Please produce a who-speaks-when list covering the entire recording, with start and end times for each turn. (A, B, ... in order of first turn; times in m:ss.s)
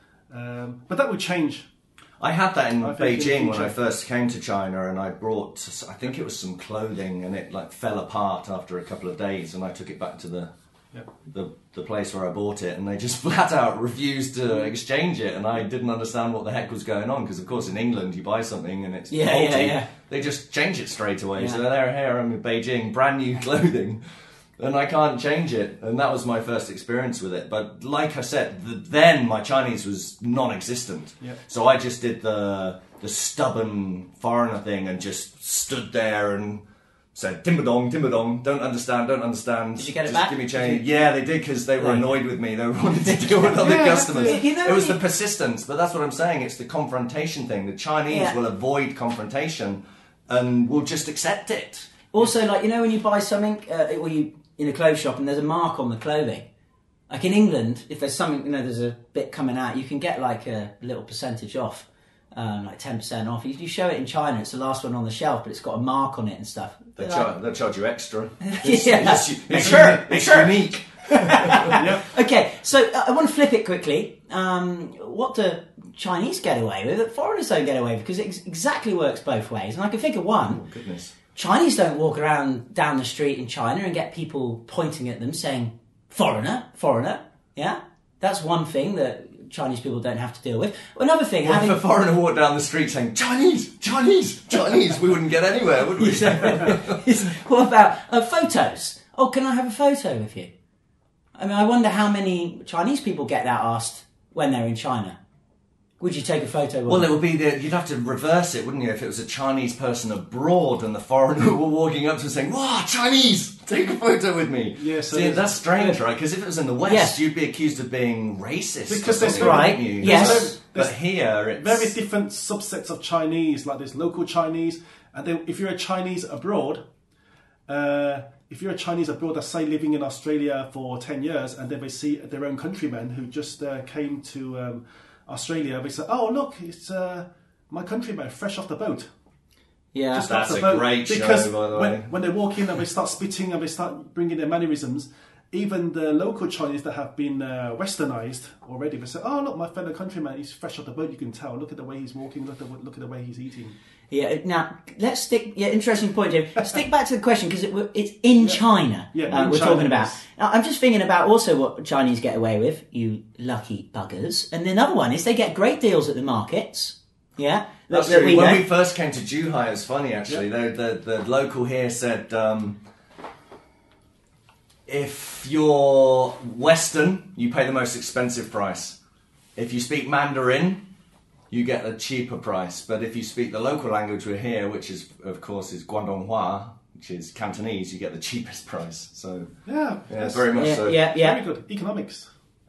0:00.3-0:01.6 A
0:02.2-0:10.5 B
0:02.8-0:03.7 A
0:11.3-0:24.0 B
0:19.1-0:19.9 C
0:21.4-0:21.6 C
0:24.6-0:36.6 B
0:37.1-0:51.9 B
0:39.8-0:40.9 C
0:41.8-0:42.0 C
0:43.1-0:45.0 C
0:43.5-0:44.4 A
0:48.1-0:48.4 C
0:52.1-0:56.4 C
0:57.1-1:07.3 C
1:07.0-1:11.8 B
1:08.4-1:20.6 C
1:11.7-1:12.0 A
1:20.5-1:21.1 B
1:21.3-1:31.8 C
1:31.4-1:37.0 B
1:36.0-1:40.5 C
1:41.4-1:45.2 C
1:46.0-1:47.1 C
1:46.9-2:01.9 B
1:54.8-1:55.6 A
1:56.8-1:57.2 C
1:58.9-2:01.0 A
1:59.3-2:00.6 C
2:01.5-2:06.8 A
2:07.7-2:19.1 A
2:19.9-2:20.3 C
2:20.1-2:33.8 A
2:20.2-2:22.1 B
2:34.1-2:48.7 C
2:38.4-2:40.2 A
2:47.9-2:52.8 B
2:54.9-2:59.0 B
2:59.6-3:00.8 B
3:01.5-3:09.5 B
3:09.6-3:12.3 A
3:10.1-3:11.0 B
3:10.5-3:11.4 C